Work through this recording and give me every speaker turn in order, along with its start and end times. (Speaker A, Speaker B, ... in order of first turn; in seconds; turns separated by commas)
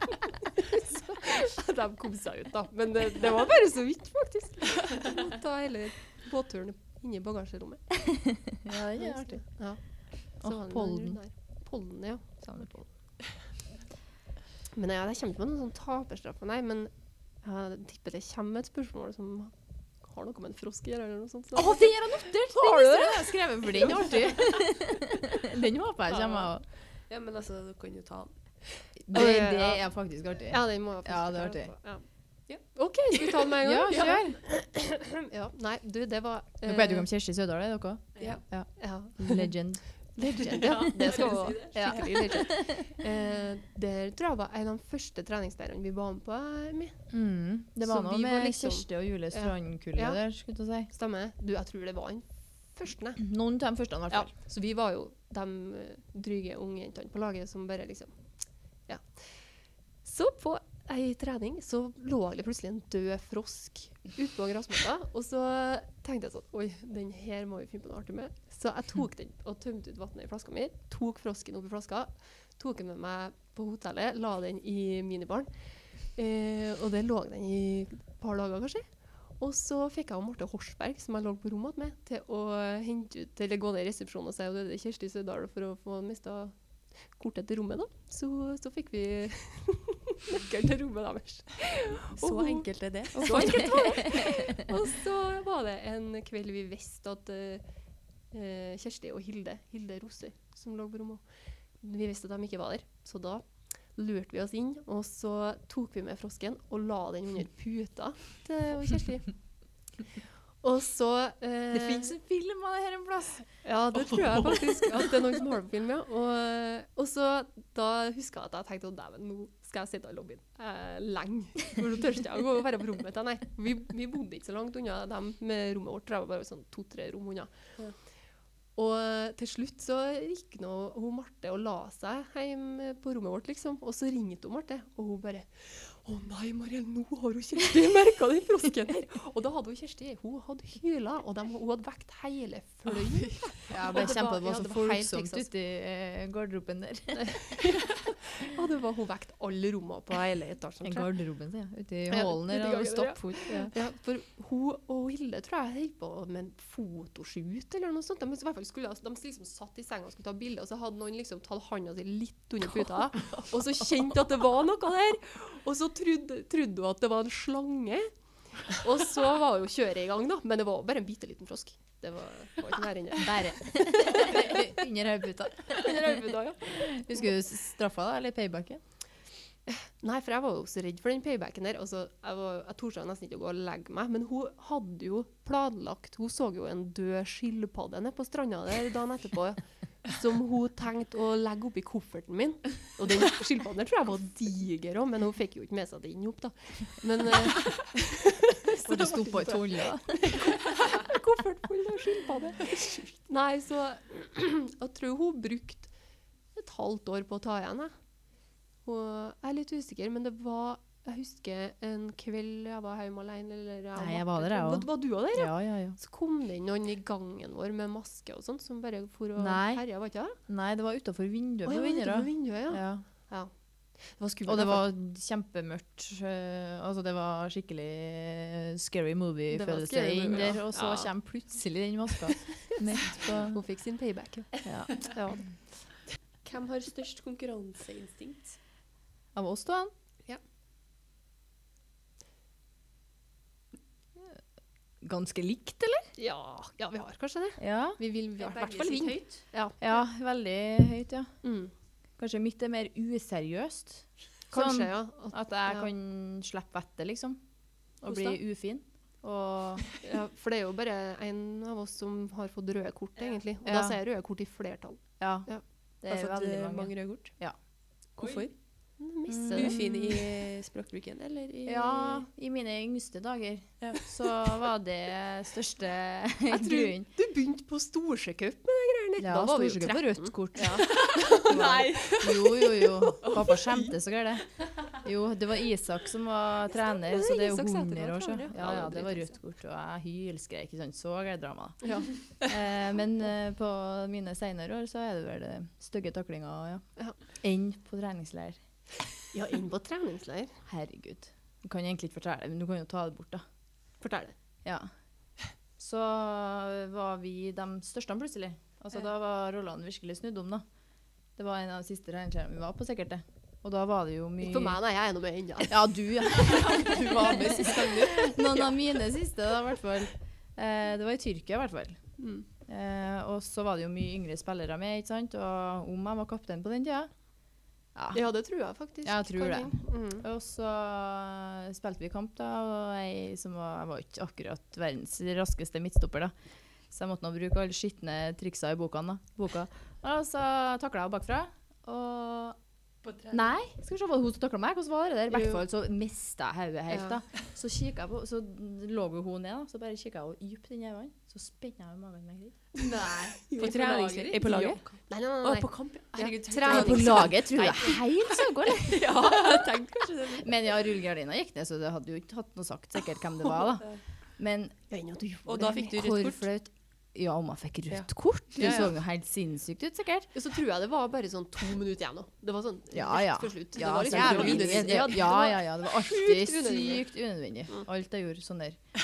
Speaker A: 0.5-12.9, Speaker B: 8.6-11.2, Speaker A: 14.7-23.9, Speaker B: 21.6-26.6, Speaker C: 26.1-26.5, Speaker C: 27.1-28.3, Speaker B: 29.0-31.7, Speaker A: 29.1-32.0, Speaker A: 32.6-37.1, Speaker B: 33.6-34.4, Speaker C: 33.9-34.2, Speaker B: 36.6-41.1, Speaker A: 38.2-39.6, Speaker A: 40.2-47.1, Speaker C: 40.7-42.2, Speaker D: 41.0-41.5, Speaker B: 41.8-42.9, Speaker B: 47.1-50.9, Speaker A: 47.8-50.2, Speaker A: 50.9-53.2, Speaker B: 53.2-54.3, Speaker A: 54.1-58.3, Speaker A: 58.9-97.6, Speaker C: 92.2-93.8, Speaker B: 93.2-94.4, Speaker A: 98.3-101.2, Speaker A: 101.8-109.3, Speaker A: 110.6-112.2, Speaker B: 111.7-113.5, Speaker A: 113.6-127.8, Speaker A: 128.8-145.5, Speaker B: 143.7-147.8, Speaker A: 147.1-151.1, Speaker B: 150.8-153.7, Speaker A: 152.1-174.7, Speaker B: 173.2-178.8, Speaker A: 175.7-177.3, Speaker A: 179.7-205.9, Speaker B: 198.8-200.4, Speaker A: 206.5-208.0, Speaker A: 208.8-220.4, Speaker B: 214.0-216.0, Speaker B: 219.4-219.9, Speaker B: 220.4-223.0, Speaker A: 221.7-224.9, Speaker B: 224.5-233.6, Speaker A: 229.5-231.1, Speaker A: 233.0-235.5, Speaker B: 234.6-235.1, Speaker C: 236.4-238.6, Speaker B: 239.3-239.9, Speaker B: 245.0-246.1, Speaker A: 246.2-249.8, Speaker B: 247.6-248.0, Speaker C: 248.4-249.2, Speaker D: 248.5-249.3, Speaker B: 249.8-251.3, Speaker A: 251.4-251.7, Speaker B: 252.2-257.4, Speaker A: 254.5-255.9, Speaker B: 258.0-259.9, Speaker A: 258.1-258.4, Speaker A: 260.0-265.6, Speaker B: 263.6-264.0, Speaker B: 265.2-265.5, Speaker B: 266.0-267.6, Speaker C: 266.1-267.3, Speaker C: 268.2-268.5, Speaker A: 269.0-270.5, Speaker B: 269.3-269.8, Speaker C: 269.5-272.2, Speaker B: 271.7-277.1, Speaker A: 276.5-281.2, Speaker B: 279.2-298.6, Speaker C: 280.6-283.9, Speaker D: 280.9-282.2, Speaker A: 286.9-289.4, Speaker A: 291.8-292.1, Speaker A: 299.3-300.6, Speaker B: 300.7-303.4, Speaker A: 304.0-304.4, Speaker B: 304.6-304.9, Speaker B: 305.8-310.6, Speaker B: 311.4-314.8, Speaker A: 314.4-318.7, Speaker B: 315.7-322.0, Speaker C: 317.2-318.1, Speaker A: 322.2-322.5, Speaker B: 322.7-327.1, Speaker B: 327.9-328.2, Speaker A: 328.1-330.3, Speaker B: 329.0-336.3, Speaker B: 336.9-342.6, Speaker D: 343.1-343.3, Speaker B: 343.3-352.8, Speaker A: 345.3-345.6, Speaker A: 346.9-347.2, Speaker D: 352.8-354.8, Speaker C: 353.5-357.8, Speaker A: 353.6-358.1, Speaker B: 356.6-359.6, Speaker C: 358.8-360.5, Speaker B: 360.4-364.8, Speaker C: 363.6-364.0, Speaker A: 364.9-366.0, Speaker C: 365.5-366.5, Speaker B: 365.6-370.3, Speaker A: 368.6-368.9, Speaker C: 368.6-368.9, Speaker A: 370.3-377.1, Speaker B: 372.9-378.8, Speaker C: 374.1-375.0